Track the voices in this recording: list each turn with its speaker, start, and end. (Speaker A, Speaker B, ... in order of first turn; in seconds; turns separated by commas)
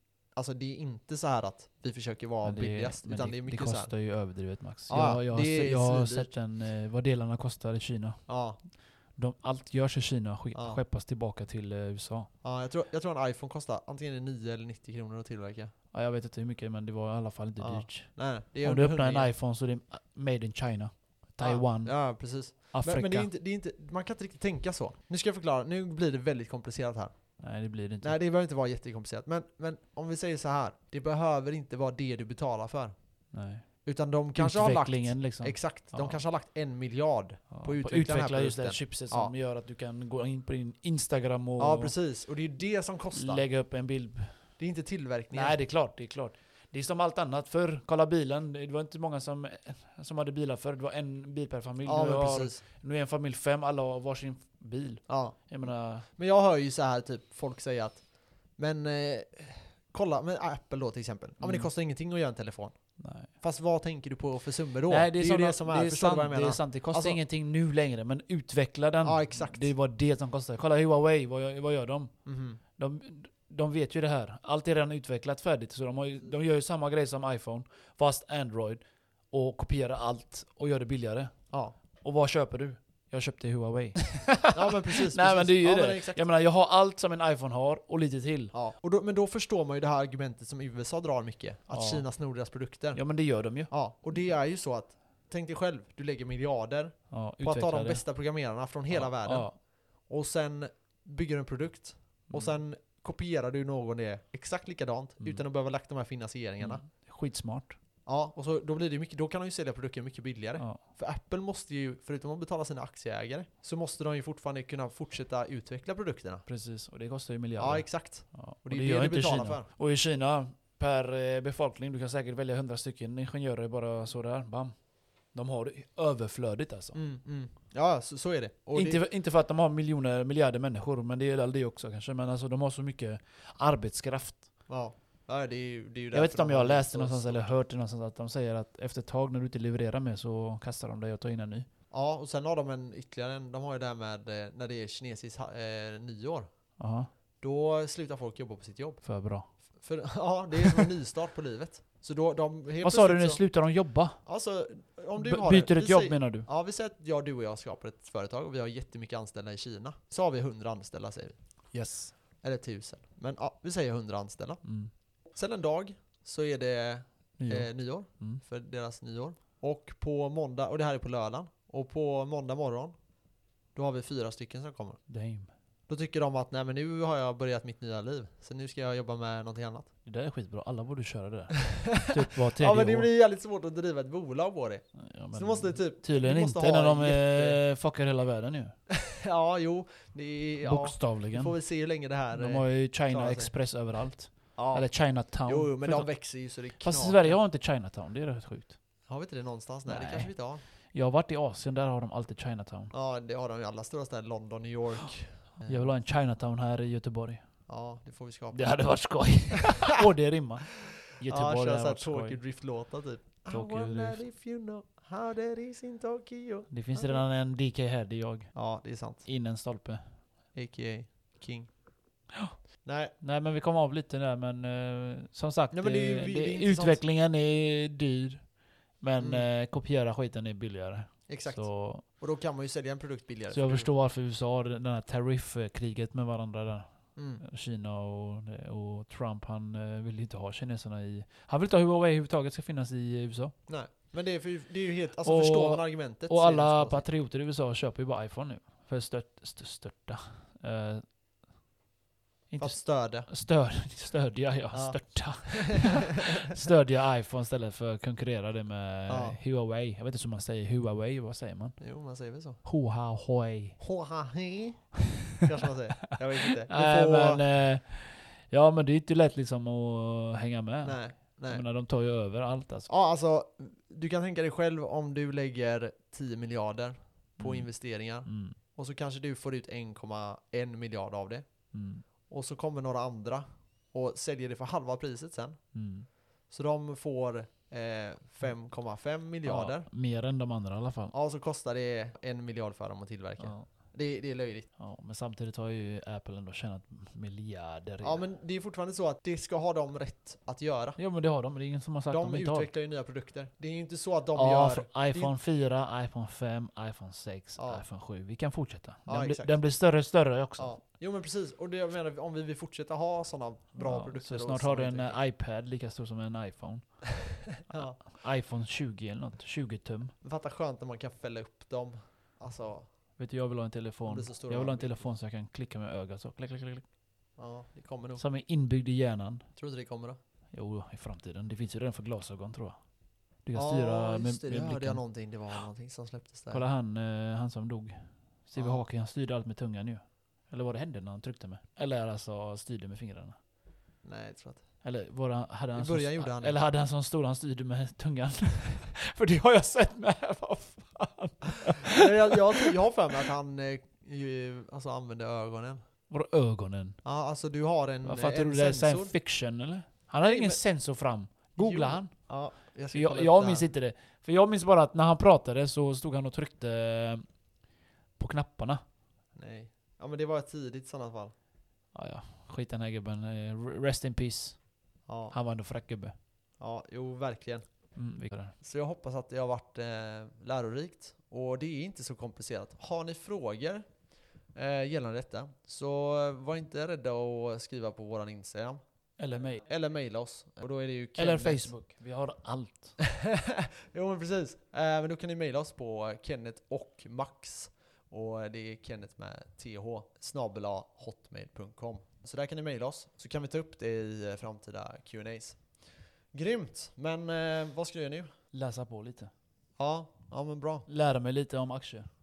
Speaker A: 0.3-3.9, Speaker B: 2.4-12.3, Speaker A: 4.9-6.3, Speaker A: 8.3-8.6, Speaker A: 10.5-10.8, Speaker A: 12.4-15.7, Speaker B: 15.9-23.3, Speaker A: 17.6-19.3, Speaker A: 21.4-27.4, Speaker B: 27.4-28.2, Speaker A: 28.0-32.9, Speaker B: 33.3-33.7, Speaker A: 33.8-39.3, Speaker B: 34.4-36.2, Speaker B: 37.5-41.9, Speaker A: 41.6-43.5, Speaker B: 43.1-44.5, Speaker A: 44.6-45.6, Speaker B: 45.3-56.1, Speaker A: 51.9-52.6, Speaker A: 55.1-67.2, Speaker B: 61.4-61.7, Speaker B: 63.0-63.3, Speaker B: 64.9-72.2, Speaker A: 69.0-69.7, Speaker A: 72.3-72.6, Speaker B: 72.8-81.3, Speaker A: 81.5-81.8, Speaker B: 82.0-88.5, Speaker A: 84.5-86.2, Speaker A: 88.5-93.0, Speaker B: 91.7-92.1, Speaker B: 92.9-93.7, Speaker A: 93.7-106.8, Speaker B: 97.1-98.0, Speaker B: 98.9-99.6, Speaker B: 102.3-102.5, Speaker B: 106.6-107.8, Speaker A: 108.1-116.5, Speaker B: 110.6-110.8, Speaker B: 116.5-124.8, Speaker A: 117.6-119.7, Speaker B: 125.3-127.0, Speaker A: 126.9-129.0, Speaker B: 128.7-134.5, Speaker A: 134.7-137.5, Speaker B: 136.1-141.7, Speaker A: 141.9-146.5, Speaker B: 146.8-147.1, Speaker A: 147.4-149.0, Speaker B: 149.0-149.5, Speaker A: 149.8-153.4, Speaker B: 150.6-150.9, Speaker B: 152.8-154.2, Speaker A: 154.2-161.4, Speaker B: 155.2-156.5, Speaker B: 161.7-162.2, Speaker A: 162.4-164.6, Speaker B: 164.6-164.9, Speaker A: 165.3-172.9, Speaker B: 167.4-168.4, Speaker A: 173.7-175.0, Speaker B: 175.1-175.5, Speaker A: 175.9-179.9, Speaker B: 180.1-183.1, Speaker A: 181.7-187.6, Speaker B: 185.0-188.8, Speaker A: 188.9-193.5, Speaker B: 190.6-191.6, Speaker B: 192.3-198.8, Speaker A: 194.6-197.4, Speaker A: 199.1-200.6, Speaker B: 199.9-200.3, Speaker B: 200.9-202.9, Speaker A: 202.9-205.9, Speaker B: 205.6-207.4, Speaker A: 207.7-208.6, Speaker B: 208.5-212.4, Speaker A: 211.2-217.2, Speaker B: 213.5-214.2, Speaker B: 216.7-218.6, Speaker A: 218.5-219.3, Speaker B: 219.2-220.2, Speaker A: 220.5-221.7, Speaker A: 222.8-223.2, Speaker B: 223.2-232.1, Speaker A: 225.7-227.0, Speaker A: 229.2-229.5, Speaker A: 231.3-233.9, Speaker B: 233.5-243.6, Speaker A: 237.2-237.4, Speaker A: 243.7-247.1, Speaker B: 245.2-251.0, Speaker B: 252.5-261.8, Speaker A: 252.6-253.3, Speaker A: 254.7-256.7, Speaker A: 259.1-259.4, Speaker A: 261.8-262.6, Speaker B: 262.6-263.8, Speaker A: 263.8-267.4, Speaker B: 266.7-272.9, Speaker A: 270.8-271.6, Speaker A: 272.9-281.7, Speaker B: 277.4-278.6, Speaker B: 281.7-282.0, Speaker A: 282.3-285.6, Speaker B: 285.7-286.1, Speaker A: 286.5-289.9, Speaker B: 289.4-291.1, Speaker A: 291.1-294.7, Speaker B: 293.4-293.7, Speaker B: 294.8-298.2, Speaker A: 298.0-301.0, Speaker B: 301.0-302.7, Speaker A: 302.1-305.3, Speaker B: 304.4-310.7, Speaker A: 307.6-307.8, Speaker A: 309.1-309.6, Speaker A: 310.6-315.2, Speaker B: 313.8-317.0, Speaker A: 317.5-318.0, Speaker B: 317.7-320.1, Speaker A: 320.2-322.9, Speaker B: 323.2-326.9, Speaker A: 324.1-325.1, Speaker A: 327.4-328.2, Speaker B: 328.2-329.5, Speaker A: 329.6-330.2, Speaker B: 330.5-332.8, Speaker B: 333.4-335.0, Speaker A: 333.6-336.6, Speaker B: 336.5-343.4, Speaker A: 338.6-338.8, Speaker A: 344.0-344.6, Speaker B: 344.8-352.7, Speaker A: 345.8-346.6, Speaker A: 351.9-355.8, Speaker B: 356.1-357.0, Speaker A: 357.0-359.1, Speaker B: 358.1-362.1, Speaker A: 360.2-360.6, Speaker A: 361.6-363.7, Speaker B: 362.9-367.3, Speaker B: 368.2-368.8, Speaker A: 369.4-371.3, Speaker B: 371.9-374.6, Speaker A: 375.1-375.4, Speaker B: 375.3-376.1, Speaker A: 376.6-377.9, Speaker B: 377.9-378.5, Speaker A: 378.6-383.9, Speaker A: 384.5-388.8, Speaker B: 389.2-389.7, Speaker A: 389.7-391.7, Speaker B: 391.2-393.0, Speaker A: 393.0-408.3, Speaker B: 408.5-409.3, Speaker A: 409.8-410.9, Speaker B: 410.9-412.1